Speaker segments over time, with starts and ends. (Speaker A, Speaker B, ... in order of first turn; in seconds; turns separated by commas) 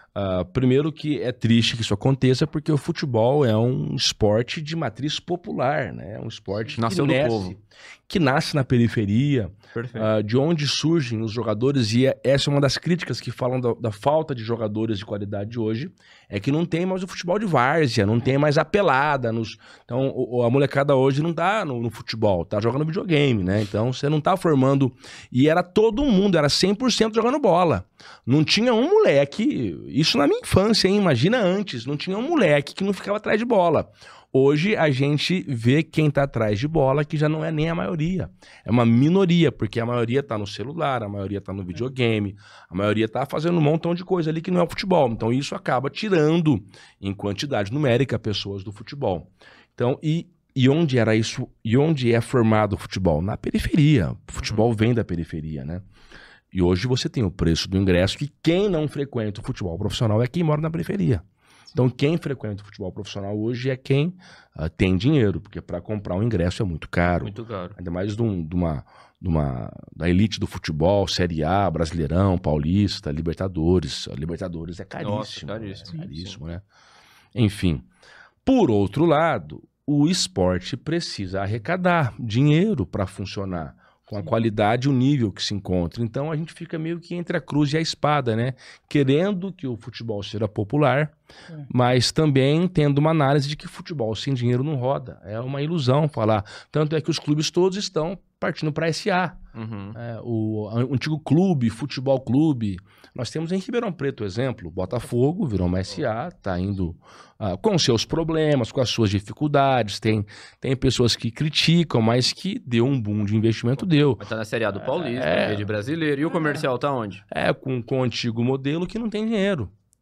Speaker A: 0.1-55.8, Speaker B: 6.8-7.5, Speaker B: 9.7-10.1, Speaker A: 56.5-76.6, Speaker B: 67.2-67.8, Speaker B: 75.0-76.4, Speaker A: 77.3-77.9, Speaker A: 78.4-91.1, Speaker A: 91.7-99.4, Speaker B: 99.5-100.0, Speaker A: 99.9-114.2, Speaker B: 114.2-117.2, Speaker A: 114.8-115.7, Speaker A: 117.3-119.7